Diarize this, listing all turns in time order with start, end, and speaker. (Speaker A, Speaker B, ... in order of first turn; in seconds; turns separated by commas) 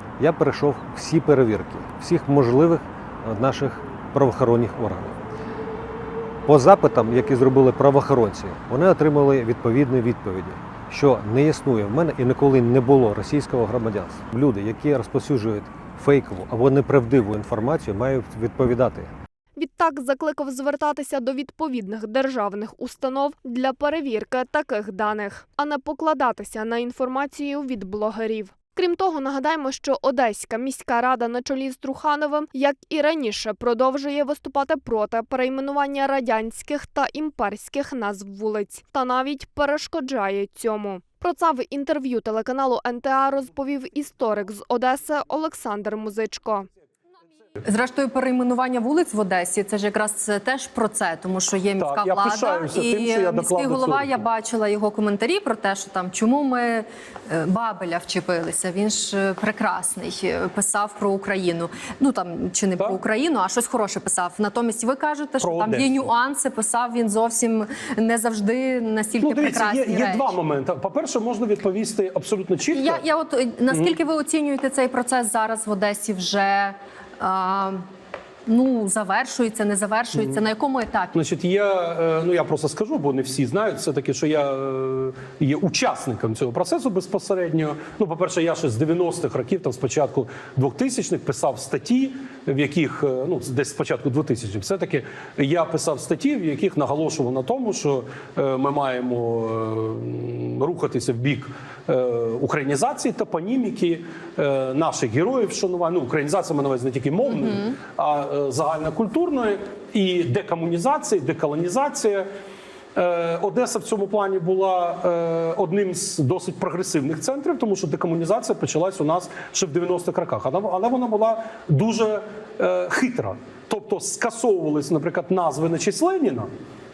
Speaker A: 0.2-5.2, Speaker A: 6.5-19.1, Speaker B: 19.6-46.7, Speaker C: 47.6-70.3, Speaker D: 51.8-54.2, Speaker D: 65.4-66.1, Speaker D: 69.2-73.0, Speaker C: 72.7-77.8, Speaker D: 73.7-74.0, Speaker C: 78.5-81.1, Speaker D: 81.1-112.3, Speaker D: 113.0-126.5